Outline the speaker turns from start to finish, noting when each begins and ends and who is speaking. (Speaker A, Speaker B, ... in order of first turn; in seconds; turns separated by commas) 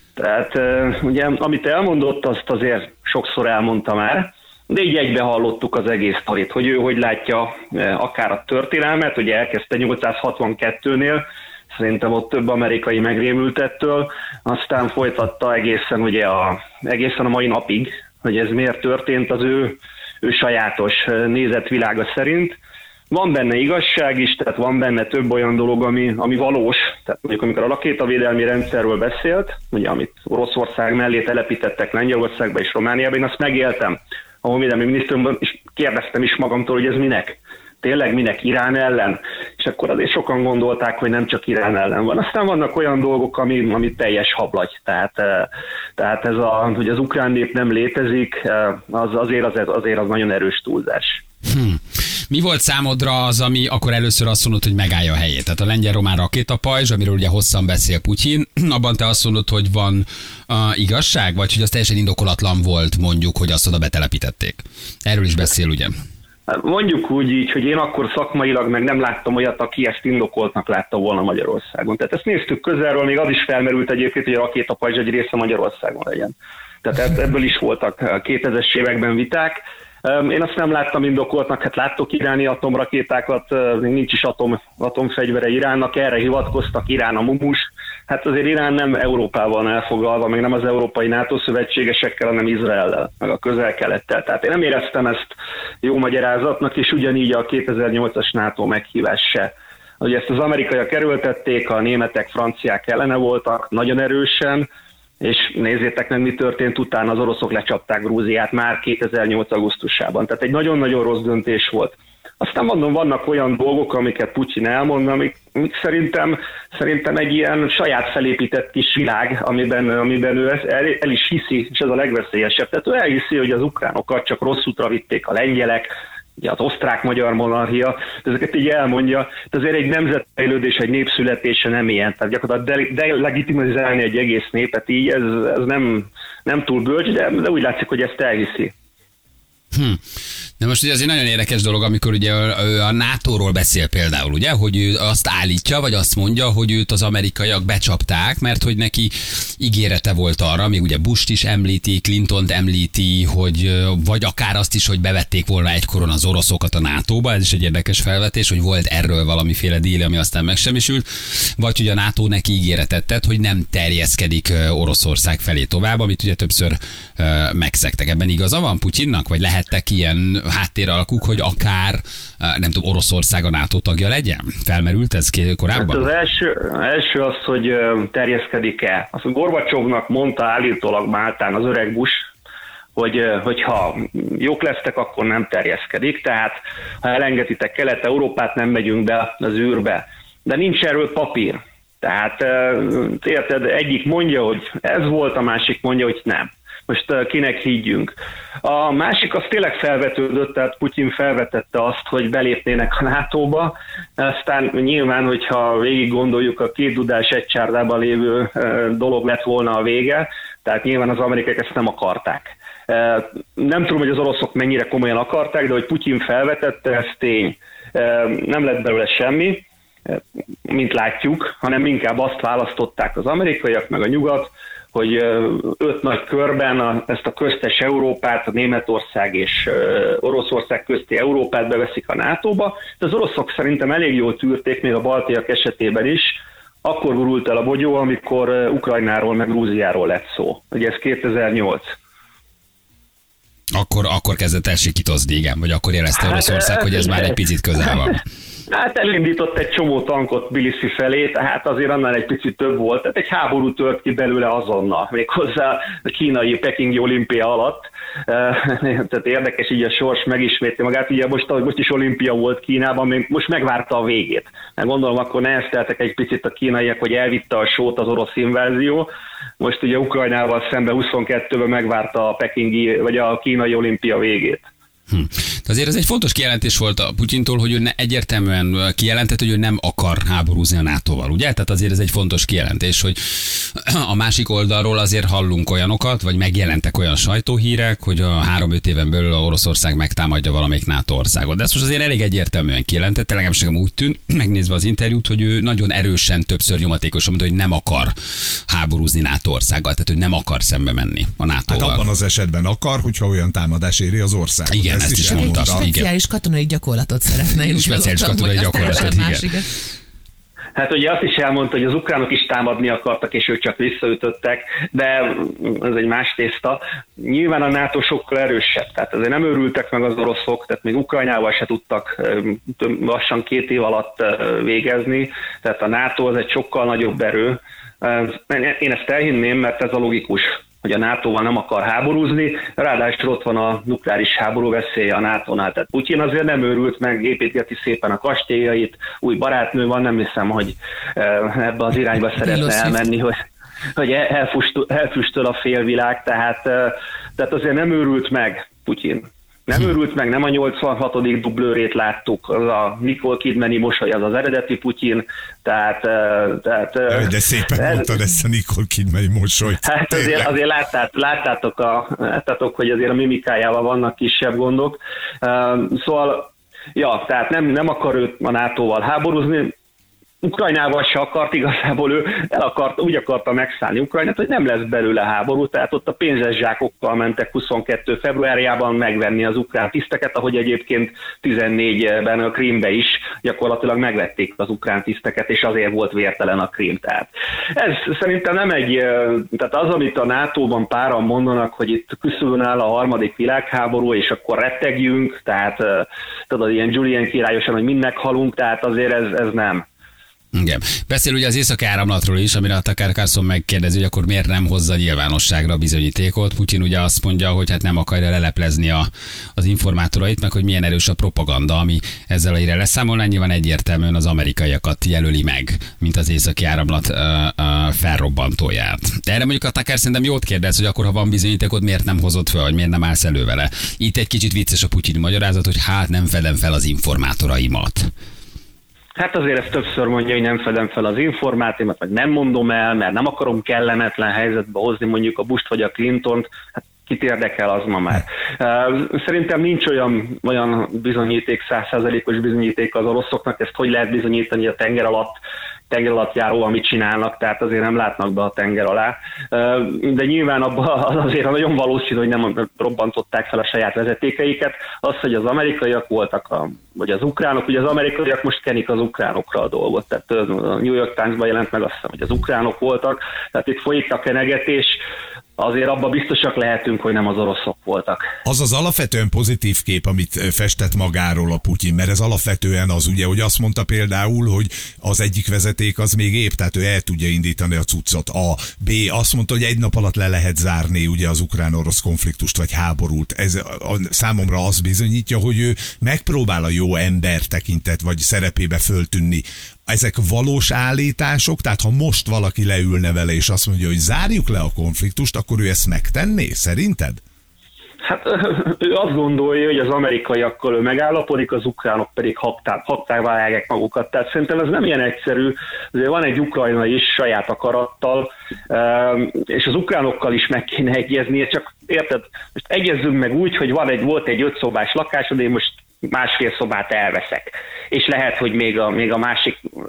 Speaker A: 0.2-22.6, Speaker A: 23.1-51.2, Speaker B: 51.5-65.9, Speaker A: 66.5-104.7, Speaker A: 105.2-138.7, Speaker B: 139.7-140.0, Speaker B: 140.6-176.1, Speaker A: 175.7-182.2, Speaker A: 182.9-241.9, Speaker B: 243.7-248.2, Speaker A: 246.2-247.3, Speaker A: 248.7-269.1, Speaker A: 269.6-274.7, Speaker B: 275.1-298.1, Speaker B: 298.7-302.0, Speaker C: 301.7-305.9, Speaker B: 304.7-306.1, Speaker D: 305.2-309.7, Speaker B: 307.7-309.5, Speaker A: 310.8-343.3, Speaker A: 343.9-358.1, Speaker C: 357.1-360.5, Speaker A: 359.8-369.7, Speaker A: 370.4-399.8, Speaker B: 400.5-428.1, Speaker A: 429.1-436.5, Speaker A: 437.1-445.4, Speaker A: 445.9-465.0, Speaker A: 465.6-468.2, Speaker C: 468.4-497.2, Speaker A: 498.0-519.7